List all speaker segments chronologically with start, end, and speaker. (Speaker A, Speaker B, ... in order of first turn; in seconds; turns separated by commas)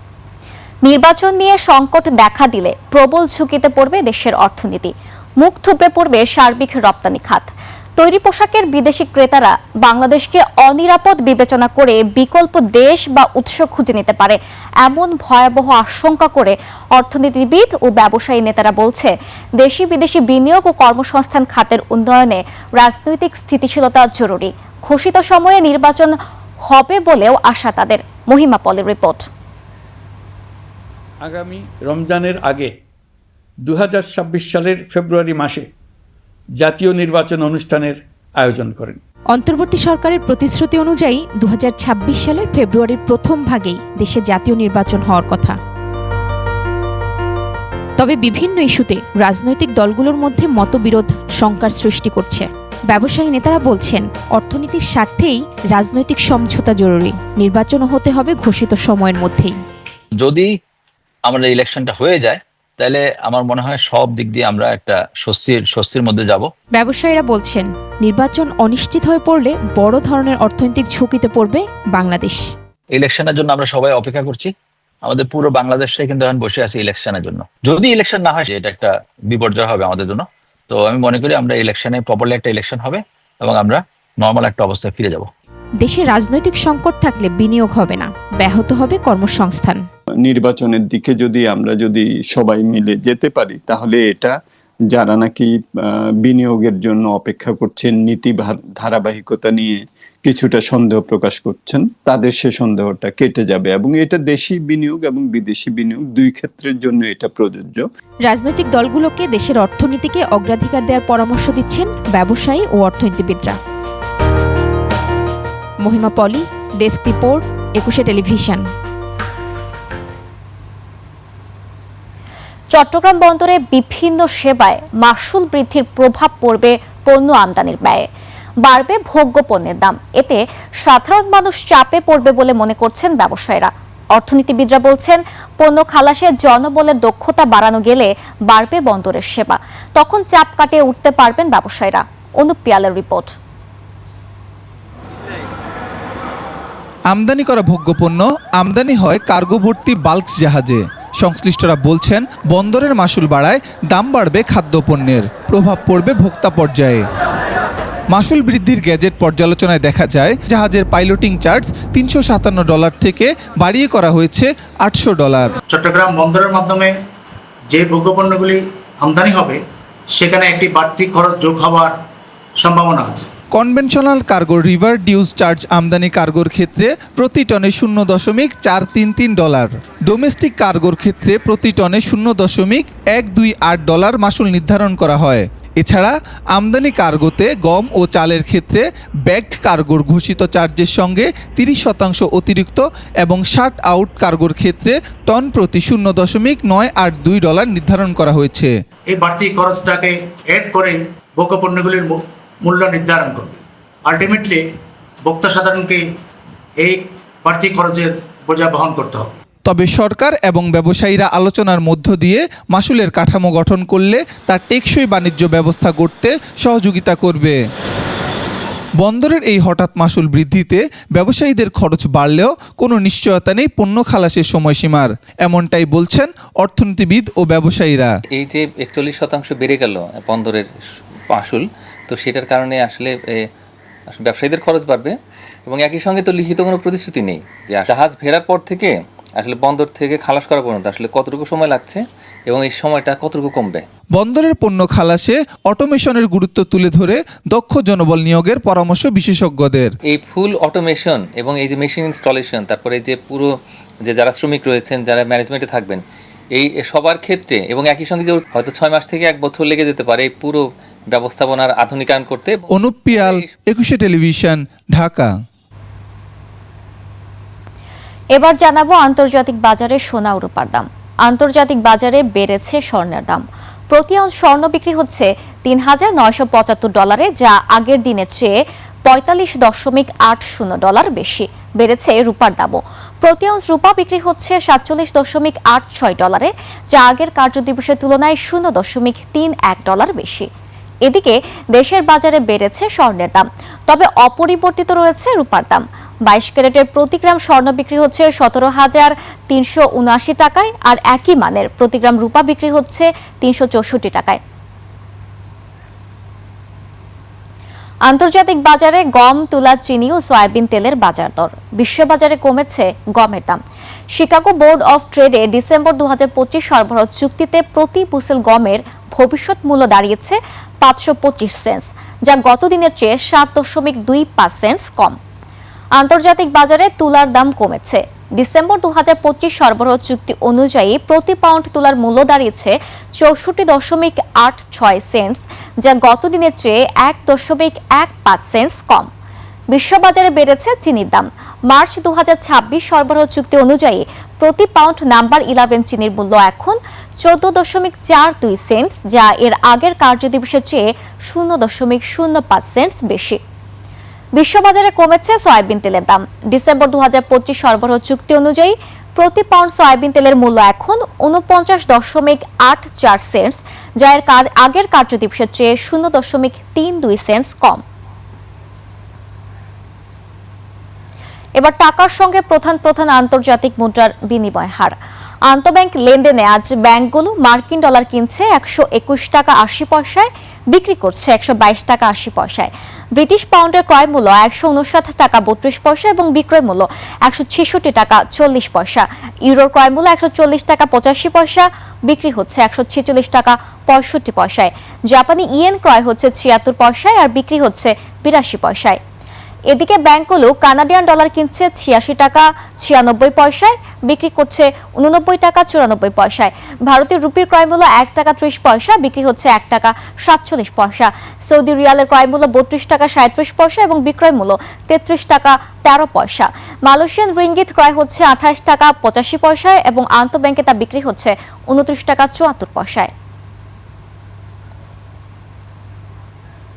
Speaker A: 0.8-29.2, Speaker B: 31.2-32.7, Speaker B: 33.6-35.7, Speaker B: 36.6-39.0, Speaker C: 39.3-45.6, Speaker C: 48.0-59.5, Speaker D: 60.2-60.5, Speaker D: 61.2-66.5, Speaker C: 66.7-72.4, Speaker D: 72.9-85.3, Speaker C: 85.8-89.8, Speaker E: 90.2-94.3, Speaker E: 94.9-107.8, Speaker C: 108.2-113.6, Speaker C: 115.8-118.6, Speaker A: 122.7-128.1, Speaker A: 128.6-143.3, Speaker F: 147.1-157.0, Speaker F: 158.1-165.5, Speaker G: 165.7-166.9, Speaker G: 167.7-169.6, Speaker G: 170.1-171.9, Speaker G: 172.6-173.3, Speaker F: 173.5-198.7, Speaker G: 199.1-204.6, Speaker G: 205.2-206.0, Speaker G: 206.8-209.3, Speaker F: 209.7-217.6, Speaker F: 219.0-228.1, Speaker H: 228.3-230.7, Speaker H: 231.3-233.4, Speaker H: 234.1-235.1, Speaker H: 235.7-243.8, Speaker F: 244.2-249.9, Speaker H: 250.1-253.5, Speaker H: 254.1-256.0, Speaker H: 256.5-262.6, Speaker F: 262.7-265.3, Speaker H: 263.1-263.5, Speaker A: 268.3-278.5, Speaker A: 279.1-290.5, Speaker A: 291.1-304.4, Speaker A: 308.1-313.6, Speaker A: 314.1-325.1, Speaker A: 326.0-339.1, Speaker A: 339.7-353.4, Speaker A: 354.4-367.8, Speaker A: 371.6-374.9, Speaker A: 375.5-399.0, Speaker A: 399.7-423.1